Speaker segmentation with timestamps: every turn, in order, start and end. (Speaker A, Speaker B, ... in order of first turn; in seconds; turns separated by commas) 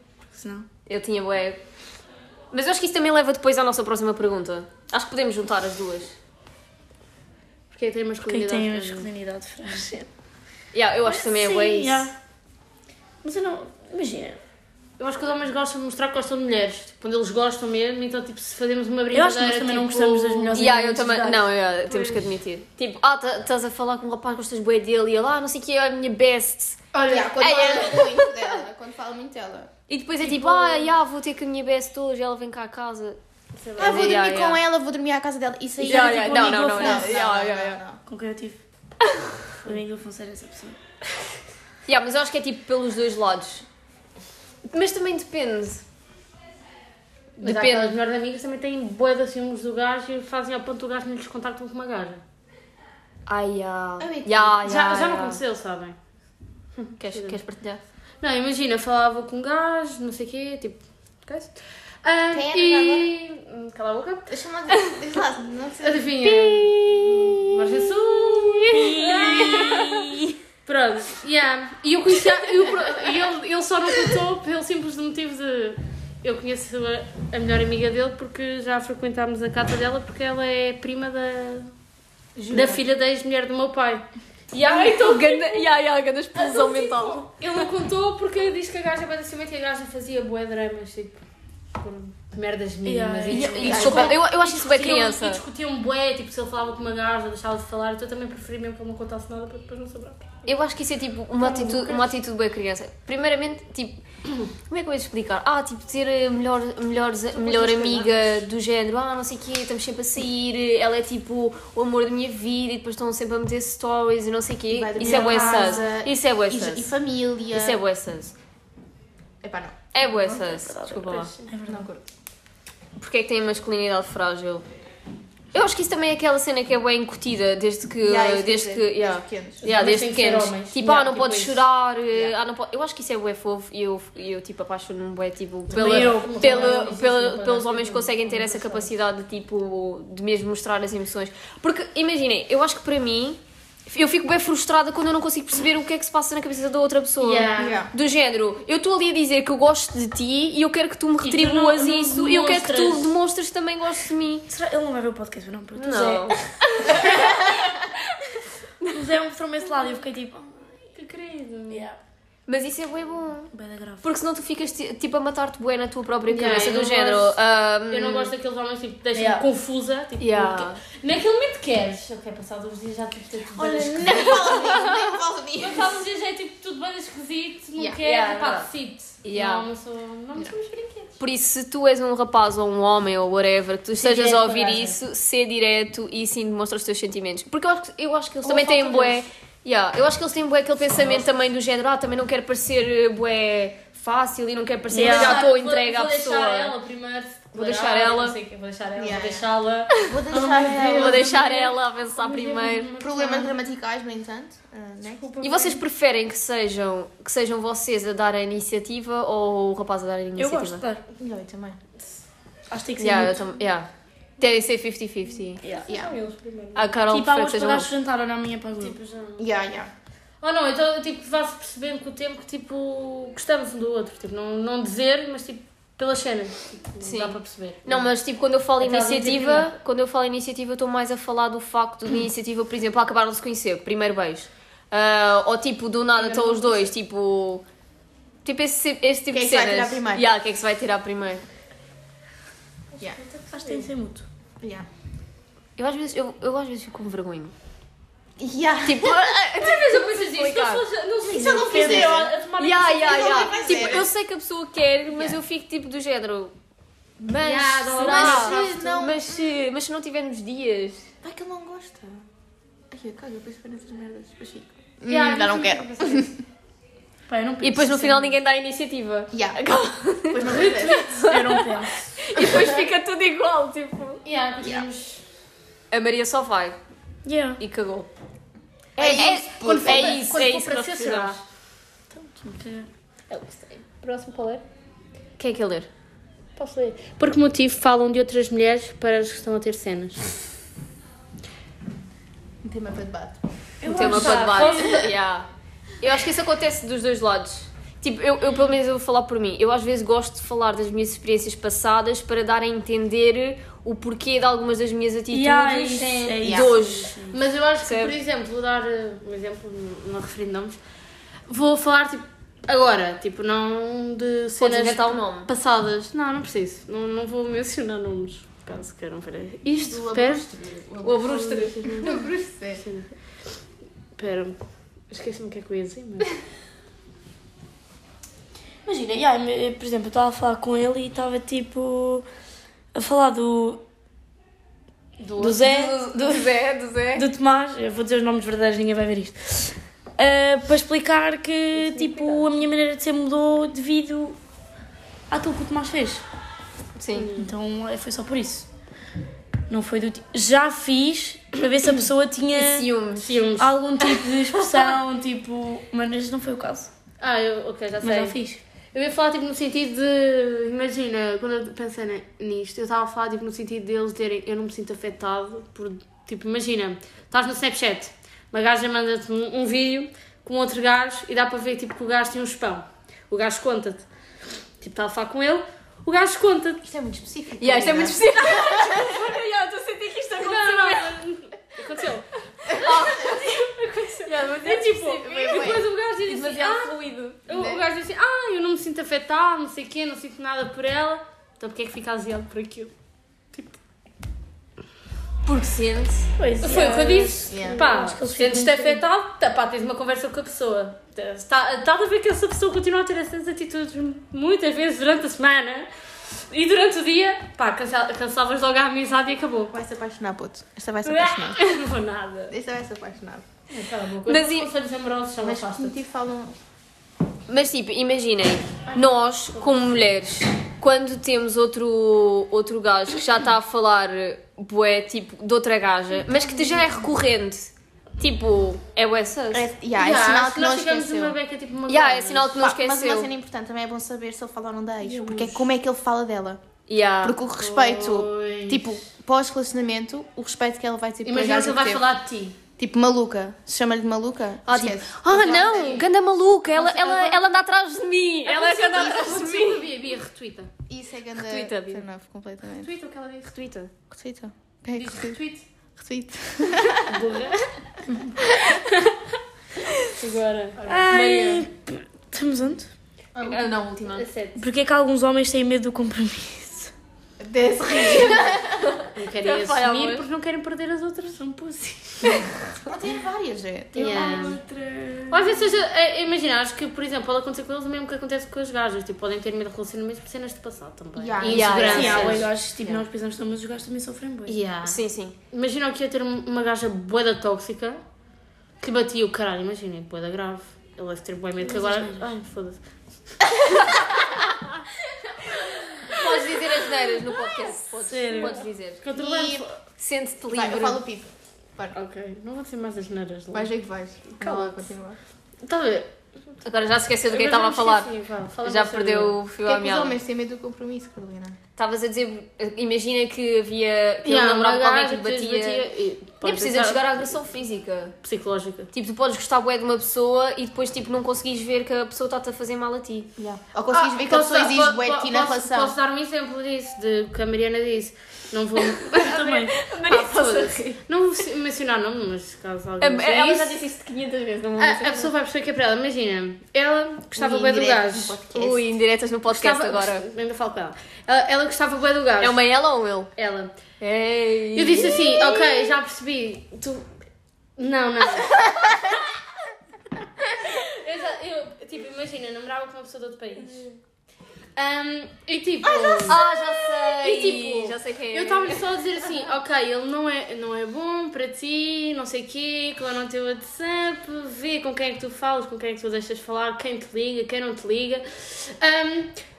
Speaker A: 0.3-0.7, Speaker B: 0.8-1.6, Speaker B: 2.5-6.2, Speaker C: 7.7-9.1, Speaker A: 8.3-10.1, Speaker B: 10.7-12.1, Speaker A: 11.1-12.1, Speaker A: 13.2-14.4, Speaker C: 15.0-20.6, Speaker A: 19.1-22.3, Speaker B: 20.5-28.3, Speaker D: 26.9-29.7, Speaker B: 29.9-33.2, Speaker C: 30.4-30.7, Speaker C: 33.5-34.2, Speaker B: 33.8-34.6, Speaker D: 33.8-38.0, Speaker A: 35.8-37.2, Speaker B: 35.8-37.8, Speaker A: 38.0-38.6, Speaker A: 39.6-40.8, Speaker B: 41.9-43.6, Speaker B: 44.7-45.8, Speaker B: 47.4-47.9, Speaker C: 47.4-52.2, Speaker B: 53.3-55.4, Speaker D: 54.0-54.6, Speaker C: 54.6-56.0, Speaker C: 56.8-57.4, Speaker B: 57.0-57.8, Speaker C: 58.2-64.3, Speaker D: 62.3-63.1, Speaker D: 64.3-67.3, Speaker C: 65.8-70.0, Speaker A: 68.7-70.4, Speaker C: 70.6-81.7, Speaker B: 82.4-82.8, Speaker C: 82.5-85.7, Speaker B: 84.7-87.3, Speaker C: 86.4-91.2, Speaker C: 91.7-100.5, Speaker A: 92.8-94.2, Speaker B: 93.3-95.4, Speaker D: 93.6-94.2, Speaker B: 100.5-104.0, Speaker C: 101.4-102.1, Speaker B: 104.7-116.9, Speaker C: 107.3-108.1, Speaker D: 114.7-117.8, Speaker A: 115.0-115.8, Speaker B: 117.5-118.3, Speaker D: 119.4-119.8, Speaker B: 119.9-121.3, Speaker A: 120.0-121.9, Speaker D: 121.7-122.0, Speaker B: 123.0-124.6, Speaker B: 125.5-154.5, Speaker D: 128.0-129.6, Speaker C: 129.6-131.6, Speaker C: 135.7-138.9, Speaker A: 135.7-136.8, Speaker C: 147.2-147.8, Speaker D: 147.6-147.9, Speaker A: 151.3-153.1, Speaker C: 151.4-151.9, Speaker A: 154.5-157.5, Speaker B: 155.7-157.5, Speaker A: 158.9-160.7, Speaker C: 160.9-161.9, Speaker A: 161.7-162.0, Speaker B: 162.5-168.3, Speaker A: 163.5-164.1, Speaker C: 166.3-167.4, Speaker C: 167.9-174.9, Speaker A: 169.1-169.4, Speaker B: 170.2-170.8, Speaker D: 173.5-176.0, Speaker B: 174.4-174.8, Speaker C: 175.6-181.2, Speaker B: 178.0-178.7, Speaker B: 179.2-179.6, Speaker B: 181.2-196.7, Speaker C: 184.0-185.0, Speaker C: 188.4-189.2, Speaker A: 194.9-195.5, Speaker C: 194.9-199.9, Speaker B: 197.5-198.4, Speaker D: 199.0-199.4, Speaker D: 200.0-201.4, Speaker A: 200.3-201.4, Speaker C: 200.7-203.5, Speaker B: 200.9-202.9, Speaker D: 203.0-205.2, Speaker C: 205.2-205.8, Speaker B: 205.4-210.8, Speaker A: 210.4-211.0, Speaker D: 211.2-211.8, Speaker A: 212.7-213.4, Speaker B: 213.0-213.9, Speaker B: 214.4-215.6, Speaker A: 215.6-215.9, Speaker C: 215.6-216.9, Speaker D: 215.9-216.2, Speaker B: 216.7-217.9, Speaker A: 217.1-219.0, Speaker C: 218.7-219.4, Speaker D: 219.4-219.9, Speaker C: 220.4-228.1, Speaker B: 227.0-237.6, Speaker C: 228.8-229.7, Speaker C: 236.2-236.9, Speaker B: 238.4-241.4, Speaker D: 239.3-240.3, Speaker C: 243.4-243.9, Speaker A: 243.5-244.2, Speaker D: 244.6-244.9, Speaker B: 245.8-247.5, Speaker D: 248.4-249.2, Speaker B: 248.8-250.8, Speaker C: 249.6-254.0, Speaker D: 251.2-252.3, Speaker A: 251.3-252.3, Speaker B: 252.6-256.5, Speaker D: 252.9-254.1, Speaker B: 257.2-261.1, Speaker C: 257.4-259.0, Speaker D: 258.0-259.2, Speaker D: 261.2-262.2, Speaker D: 262.9-266.3, Speaker C: 265.1-266.3, Speaker A: 267.3-268.3, Speaker B: 267.6-274.2, Speaker D: 269.3-269.6, Speaker D: 270.2-271.1, Speaker C: 270.4-271.2, Speaker A: 271.2-272.2, Speaker D: 272.4-272.7, Speaker C: 274.2-275.2, Speaker D: 274.6-274.9, Speaker B: 275.9-276.8, Speaker A: 277.2-277.6, Speaker B: 277.6-278.1, Speaker D: 279.0-280.3, Speaker B: 279.0-281.4, Speaker C: 279.0-281.4, Speaker A: 282.1-282.9, Speaker C: 283.3-284.6, Speaker B: 285.4-285.9, Speaker C: 286.6-290.3, Speaker D: 292.6-293.4, Speaker A: 293.8-295.0, Speaker B: 293.9-295.5, Speaker C: 293.9-295.0, Speaker B: 296.0-307.1, Speaker A: 305.3-307.4, Speaker C: 306.0-306.4, Speaker D: 306.4-306.7, Speaker C: 307.3-310.8, Speaker B: 307.8-308.1, Speaker C: 311.5-320.5, Speaker B: 314.6-315.5, Speaker D: 319.8-322.8, Speaker B: 321.0-322.1, Speaker C: 321.6-322.2, Speaker C: 322.8-323.1, Speaker C: 324.2-326.3, Speaker A: 328.8-332.2, Speaker A: 332.9-333.8, Speaker C: 335.2-335.6, Speaker A: 335.4-336.4, Speaker B: 335.4-337.3, Speaker A: 337.1-344.4, Speaker C: 341.8-342.4, Speaker A: 345.3-346.2, Speaker B: 346.9-347.3, Speaker C: 347.1-347.5, Speaker A: 347.4-348.7, Speaker A: 349.7-352.9, Speaker B: 352.5-353.3, Speaker C: 353.2-354.2, Speaker A: 353.6-356.9, Speaker C: 357.2-358.4, Speaker A: 358.0-358.6, Speaker C: 358.9-374.1, Speaker C: 374.8-376.9, Speaker D: 376.8-379.0, Speaker B: 377.6-381.1, Speaker C: 380.4-392.9, Speaker D: 382.7-383.1, Speaker B: 382.7-383.6, Speaker B: 384.2-385.6, Speaker D: 385.2-385.9, Speaker B: 386.2-387.4, Speaker D: 387.5-387.8, Speaker C: 393.5-393.8, Speaker B: 395.4-396.3, Speaker A: 396.4-399.0, Speaker C: 396.6-409.7, Speaker D: 397.5-397.9, Speaker D: 409.7-411.6, Speaker C: 411.0-412.5, Speaker D: 412.5-413.4, Speaker C: 413.7-416.0, Speaker B: 414.3-414.7, Speaker D: 415.4-416.6, Speaker B: 417.5-429.7, Speaker D: 429.5-431.4, Speaker C: 429.9-432.6, Speaker B: 431.9-433.3, Speaker D: 432.6-436.6, Speaker C: 435.0-435.6, Speaker B: 436.9-437.4, Speaker D: 437.2-442.1, Speaker C: 437.6-439.0, Speaker C: 441.2-442.6, Speaker D: 442.8-446.1, Speaker B: 444.7-449.9, Speaker C: 445.3-446.1, Speaker C: 446.7-447.4, Speaker C: 448.4-450.7, Speaker D: 450.9-452.9, Speaker B: 451.4-452.0, Speaker C: 452.8-453.6, Speaker B: 453.5-453.9, Speaker D: 454.1-455.4, Speaker C: 454.9-455.6, Speaker D: 456.0-457.1, Speaker C: 457.0-457.7, Speaker C: 460.1-460.8, Speaker D: 460.8-461.2, Speaker A: 460.9-462.9, Speaker B: 461.1-461.6, Speaker D: 463.3-463.7, Speaker B: 463.4-464.2, Speaker C: 464.1-464.6, Speaker A: 464.6-466.9, Speaker D: 467.4-468.9, Speaker B: 468.8-470.2, Speaker C: 469.1-472.4, Speaker D: 472.8-474.6, Speaker C: 473.9-474.6, Speaker A: 474.0-475.7, Speaker C: 475.3-482.5, Speaker D: 481.1-482.4, Speaker B: 481.4-482.9, Speaker A: 481.9-484.6, Speaker C: 484.5-488.0, Speaker B: 484.8-485.3, Speaker C: 488.8-493.4, Speaker A: 491.6-492.3, Speaker B: 496.1-499.0, Speaker A: 498.0-498.6, Speaker C: 498.4-499.8, Speaker D: 499.1-499.6, Speaker B: 500.0-501.0, Speaker D: 500.5-501.9, Speaker C: 501.9-503.7, Speaker D: 503.5-505.2, Speaker C: 504.3-504.9, Speaker C: 505.6-506.1, Speaker B: 506.6-508.1, Speaker C: 507.3-509.4, Speaker B: 508.6-510.1, Speaker D: 509.6-511.6, Speaker B: 511.8-515.8, Speaker C: 514.2-517.3, Speaker B: 516.4-518.1, Speaker C: 518.2-518.9, Speaker B: 518.9-523.3, Speaker D: 523.4-525.9, Speaker C: 523.9-533.8, Speaker B: 529.1-530.9, Speaker A: 529.1-529.7, Speaker B: 533.0-535.3, Speaker C: 534.8-538.4, Speaker D: 537.4-538.8, Speaker B: 538.5-540.2, Speaker C: 539.5-542.6, Speaker B: 542.4-543.3, Speaker C: 543.4-543.7, Speaker B: 544.0-545.4, Speaker C: 544.7-547.1, Speaker C: 547.8-548.5, Speaker D: 548.5-549.2, Speaker C: 550.6-553.9, Speaker C: 554.8-556.4, Speaker D: 555.9-556.3, Speaker B: 556.2-558.8, Speaker C: 557.0-569.4